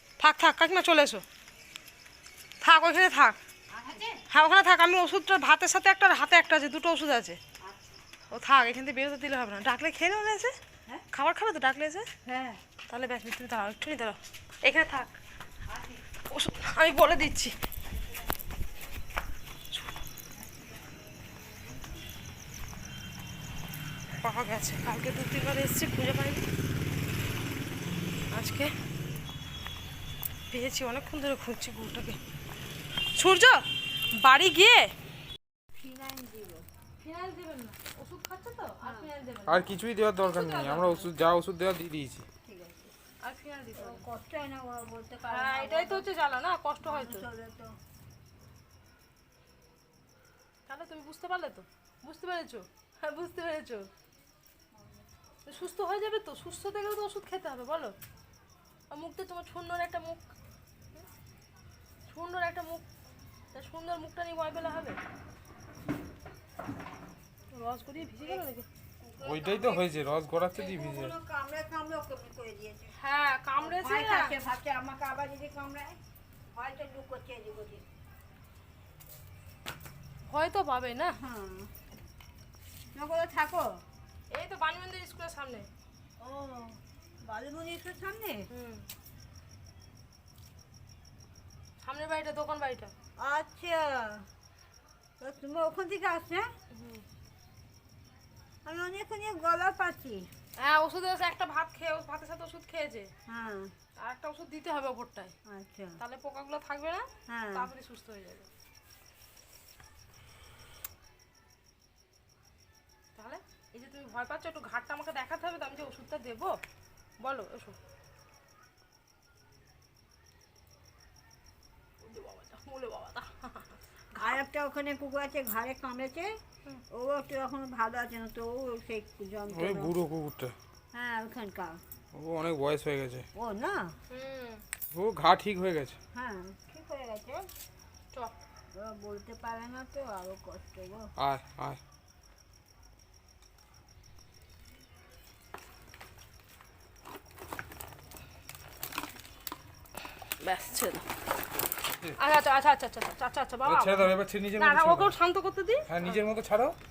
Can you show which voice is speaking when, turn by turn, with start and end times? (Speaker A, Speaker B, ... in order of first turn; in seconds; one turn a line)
Speaker A: 0.2-1.2
Speaker A: 2.6-3.4
Speaker B: 3.7-4.2
Speaker A: 4.3-7.4
Speaker B: 7.6-7.9
Speaker A: 8.3-10.5
Speaker A: 11.1-12.1
Speaker B: 12.2-12.6
Speaker A: 12.9-15.2
Speaker A: 16.2-17.5
Speaker A: 24.2-26.5
Speaker A: 28.3-28.7
Speaker A: 30.5-32.2
Speaker A: 33.1-34.9
Speaker B: 35.7-36.6
Speaker A: 37.0-39.7
Speaker B: 38.8-39.1
Speaker C: 39.5-42.3
Speaker A: 40.2-41.1
Speaker B: 42.4-42.9
Speaker A: 43.2-44.0
Speaker B: 43.8-46.1
Speaker A: 45.3-47.3
Speaker B: 46.8-47.7
Speaker A: 50.7-53.9
Speaker B: 54.7-55.1
Speaker A: 55.5-58.0
Speaker A: 58.9-60.3
Speaker A: 62.1-62.9
Speaker A: 63.5-65.0
Speaker A: 67.5-68.7
Speaker B: 69.0-69.9
Speaker C: 69.2-71.1
Speaker B: 70.5-72.9
Speaker A: 73.0-74.4
Speaker B: 73.6-76.0
Speaker B: 76.5-77.8
Speaker A: 80.3-81.2
Speaker B: 81.1-81.7
Speaker B: 82.9-83.8
Speaker A: 84.3-85.7
Speaker B: 86.2-88.5
Speaker A: 88.5-88.9
Speaker A: 91.8-92.9
Speaker B: 93.2-94.3
Speaker B: 95.2-96.5
Speaker A: 96.7-97.0
Speaker B: 98.7-100.3
Speaker A: 100.6-103.1
Speaker B: 103.3-103.7
Speaker A: 104.0-105.3
Speaker B: 105.5-106.0
Speaker A: 106.0-108.5
Speaker B: 107.3-107.7
Speaker A: 113.2-116.5
Speaker A: 117.2-117.8
Speaker A: 122.0-124.4
Speaker B: 124.2-126.3
Speaker B: 126.9-130.0
Speaker C: 129.5-130.6
Speaker B: 130.9-131.8
Speaker C: 132.1-133.3
Speaker B: 133.3-134.0
Speaker A: 134.1-134.6
Speaker C: 134.9-136.0
Speaker B: 136.1-137.4
Speaker B: 138.7-141.1
Speaker C: 141.2-141.8
Speaker A: 150.4-151.1
Speaker A: 152.2-155.9
Speaker C: 153.6-155.1
Speaker C: 155.9-156.8